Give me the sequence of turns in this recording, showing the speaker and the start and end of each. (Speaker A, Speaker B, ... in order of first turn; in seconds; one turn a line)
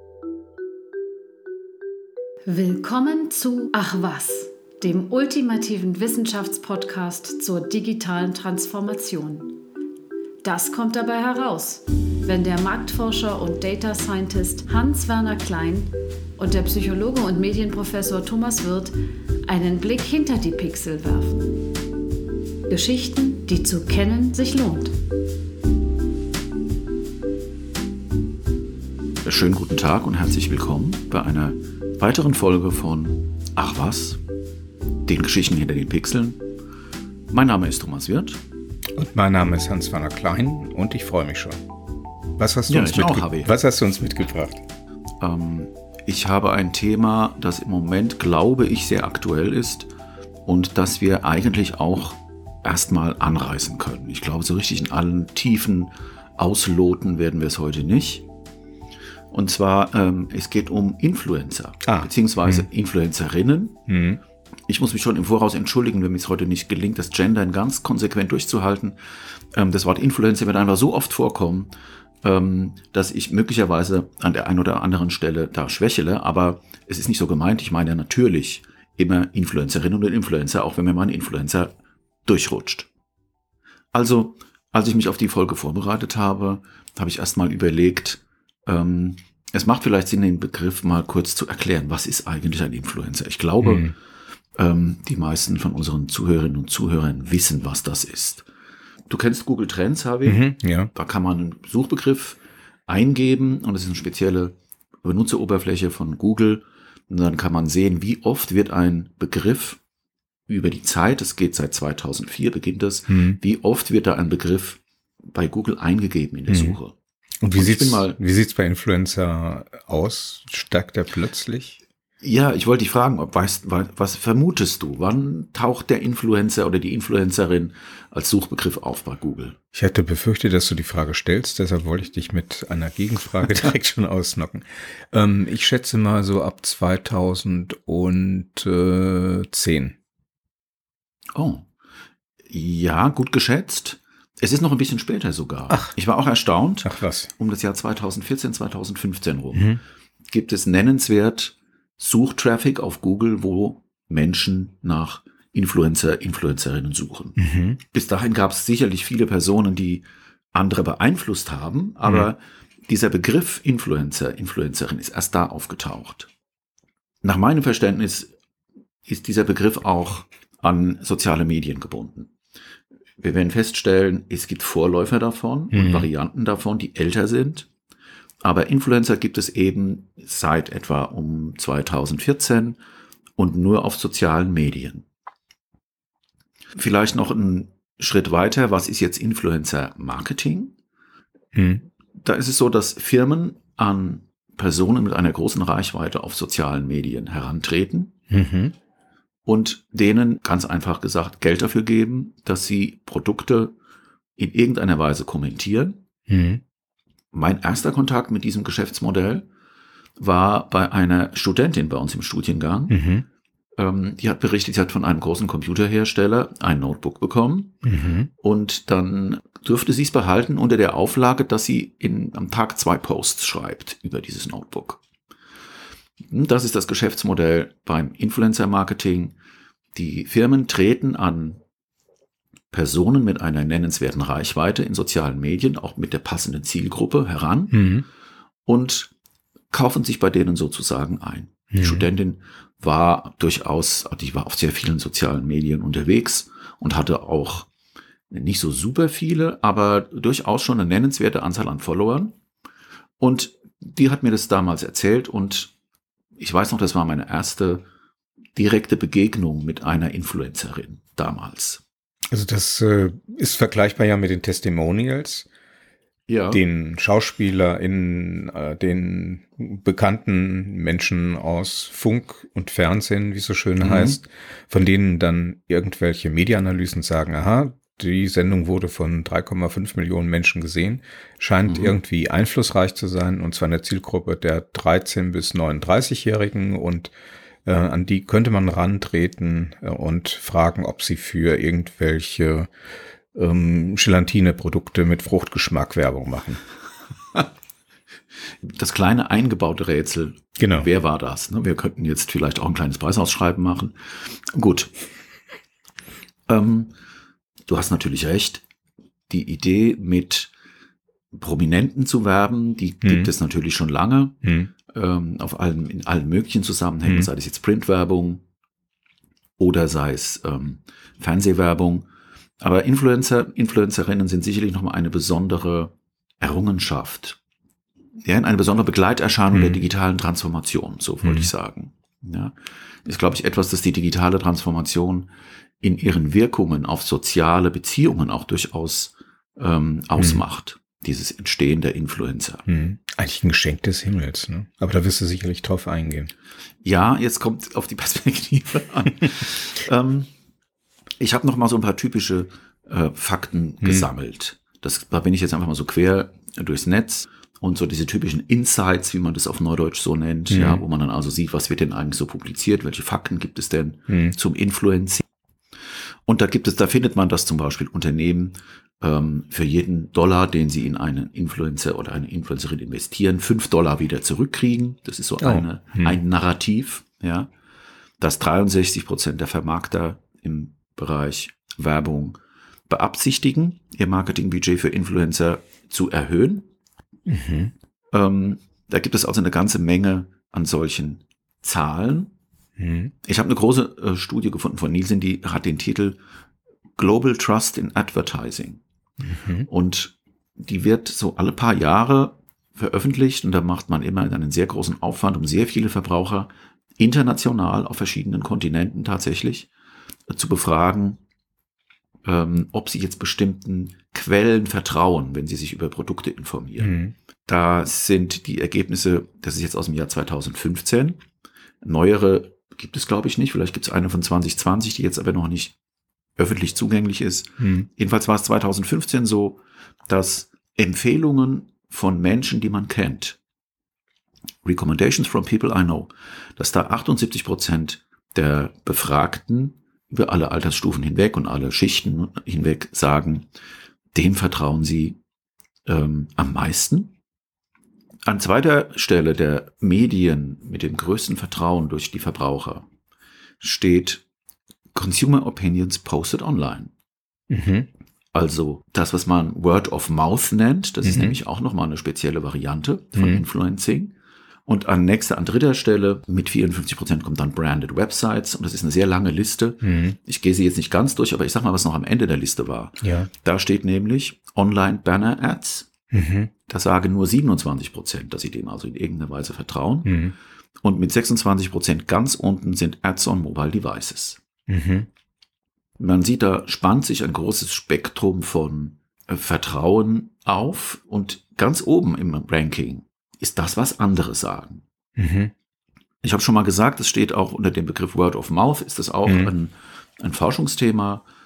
Speaker A: 2.5-9.6
Speaker A: 10.4-18.9
Speaker A: 19.5-21.4
Speaker A: 22.7-24.9
Speaker B: 29.2-34.2
Speaker B: 35.1-36.4
Speaker B: 37.3-38.4
Speaker C: 39.0-41.6
Speaker C: 42.4-44.6
Speaker B: 42.7-43.5
Speaker B: 45.2-49.9
Speaker B: 50.5-58.2
Speaker B: 59.3-63.8
Speaker C: 61.9-62.7
Speaker C: 63.9-64.2
Speaker B: 64.7-69.0
Speaker B: 69.5-71.7
Speaker B: 72.2-81.8
Speaker B: 82.3-82.9
Speaker B: 83.9-93.9
Speaker C: 93.6-93.9
Speaker B: 94.6-98.5
Speaker B: 99.1-109.8
Speaker C: 100.2-100.9
Speaker B: 110.5-114.8
Speaker C: 113.1-113.4
Speaker B: 115.3-117.0
Speaker C: 116.5-116.8
Speaker C: 117.4-121.8
Speaker B: 117.5-118.2
Speaker B: 122.2-129.6
Speaker C: 129.7-140.0
Speaker B: 141.3-141.7
Speaker B: 142.5-149.8
Speaker C: 146.8-147.3
Speaker C: 149.5-149.8
Speaker B: 150.3-157.4
Speaker C: 157.4-157.8
Speaker B: 157.9-166.3
Speaker C: 162.1-162.3
Speaker B: 167.2-168.3
Speaker B: 169.1-172.3
Speaker B: 173.2-177.7
Speaker C: 175.7-176.1
Speaker B: 178.4-182.8
Speaker B: 183.4-185.1
Speaker B: 186.8-190.8
Speaker C: 191.5-191.8
Speaker B: 192.2-198.2
Speaker C: 198.3-198.7
Speaker B: 199.5-203.8
Speaker B: 204.4-206.0
Speaker C: 206.3-206.6
Speaker B: 207.3-209.5
Speaker B: 210.2-213.0
Speaker C: 212.9-213.3
Speaker B: 213.8-217.8
Speaker C: 217.8-218.3
Speaker B: 218.4-225.0
Speaker B: 226.2-229.4
Speaker B: 229.9-231.6
Speaker B: 232.7-238.0
Speaker C: 237.7-238.1
Speaker B: 238.7-239.1
Speaker B: 239.7-247.7
Speaker C: 241.7-242.1
Speaker B: 248.3-252.3
Speaker B: 253.2-255.7
Speaker B: 256.4-257.9
Speaker B: 258.6-261.8
Speaker C: 262.3-265.5
Speaker B: 266.3-266.6
Speaker C: 266.5-287.1
Speaker B: 273.8-274.2
Speaker B: 281.7-281.9
Speaker C: 287.6-292.7
Speaker C: 293.3-296.6
Speaker B: 298.6-304.9
Speaker C: 300.6-300.9
Speaker B: 306.5-306.9
Speaker B: 307.7-308.6
Speaker B: 309.3-310.5
Speaker B: 311.3-318.4
Speaker C: 313.0-313.3
Speaker C: 314.4-314.7
Speaker B: 319.6-322.1
Speaker B: 322.6-327.4
Speaker B: 328.2-335.3
Speaker C: 329.5-329.8
Speaker C: 331.2-331.5
Speaker B: 335.8-342.7
Speaker C: 342.7-346.3
Speaker B: 346.8-350.3
Speaker B: 351.2-365.3
Speaker C: 360.5-360.8
Speaker C: 364.1-364.4
Speaker B: 366.3-377.5
Speaker C: 375.4-376.2
Speaker B: 378.2-386.7
Speaker C: 387.3-387.7
Speaker B: 388.1-392.3
Speaker C: 392.8-393.1
Speaker B: 393.2-396.2
Speaker B: 397.0-398.8
Speaker C: 399.2-399.7
Speaker B: 399.7-409.7
Speaker B: 410.3-411.2
Speaker B: 412.2-421.2
Speaker C: 416.8-417.1
Speaker B: 421.8-425.8
Speaker B: 426.4-433.4
Speaker C: 427.6-427.9
Speaker B: 434.6-443.5
Speaker B: 444.1-445.2
Speaker B: 445.9-447.1
Speaker B: 448.3-452.9
Speaker B: 453.6-454.2
Speaker B: 454.9-456.9
Speaker C: 457.5-457.9
Speaker B: 458.3-464.1
Speaker C: 461.0-461.4
Speaker C: 463.2-463.4
Speaker B: 464.7-475.9
Speaker C: 469.8-470.2
Speaker C: 473.0-473.3
Speaker C: 476.1-476.5
Speaker B: 476.7-480.3
Speaker C: 480.1-480.4
Speaker B: 480.8-484.4
Speaker C: 484.7-485.1
Speaker B: 486.0-494.8
Speaker C: 495.2-495.5
Speaker B: 496.2-501.2
Speaker C: 499.3-499.5